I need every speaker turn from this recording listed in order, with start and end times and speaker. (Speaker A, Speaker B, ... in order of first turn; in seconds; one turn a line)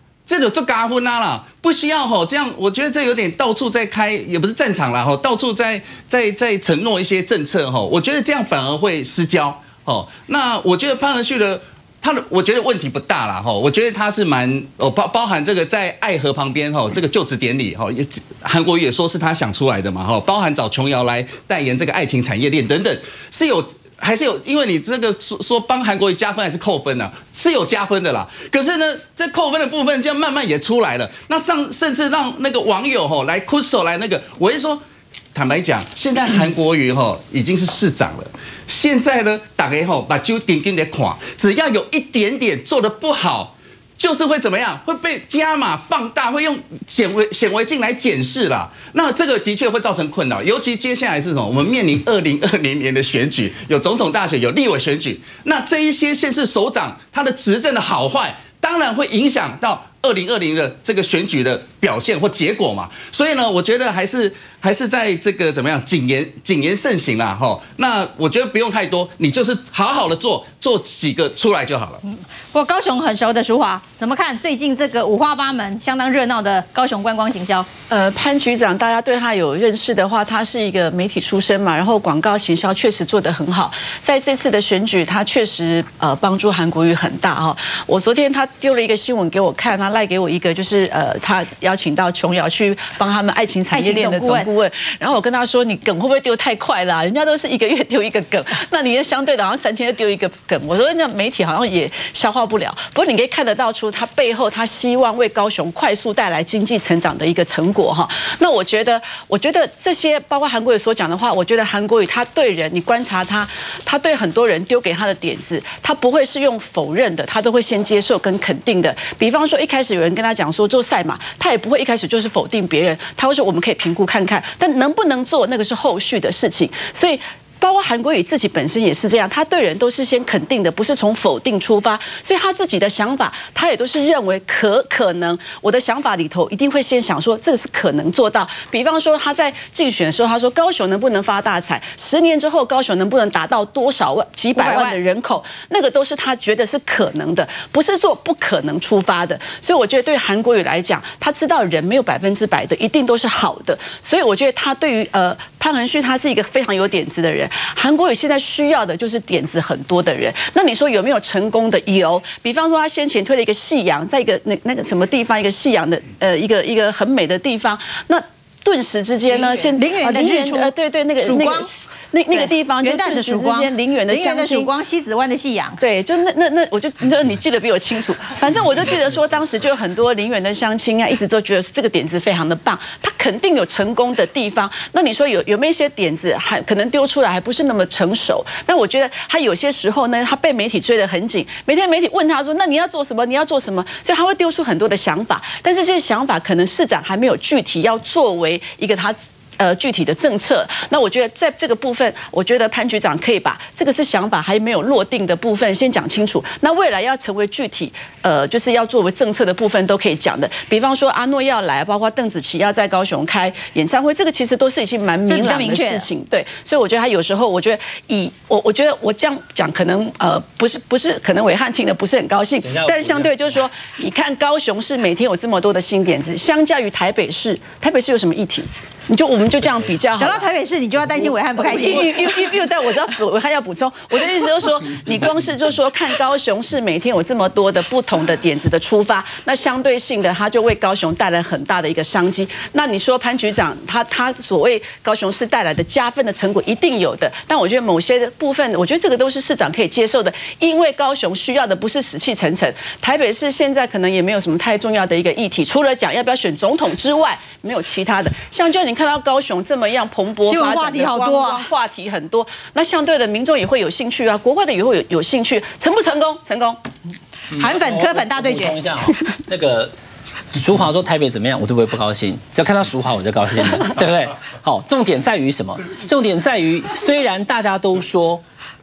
Speaker A: 0.3-34.8
Speaker A: 35.3-72.0
Speaker B: 72.1-77.7
Speaker C: 77.9-174.7
Speaker B: 93.7-94.5
Speaker B: 144.6-145.0
Speaker B: 169.3-171.7
Speaker B: 172.3-175.8
Speaker C: 175.8-230.5
Speaker B: 215.3-216.1
Speaker D: 222.6-223.4
Speaker B: 230.2-232.3
Speaker C: 231.6-266.8
Speaker B: 260.4-261.6
Speaker D: 267.5-269.9
Speaker B: 267.5-268.8
Speaker D: 270.5-278.4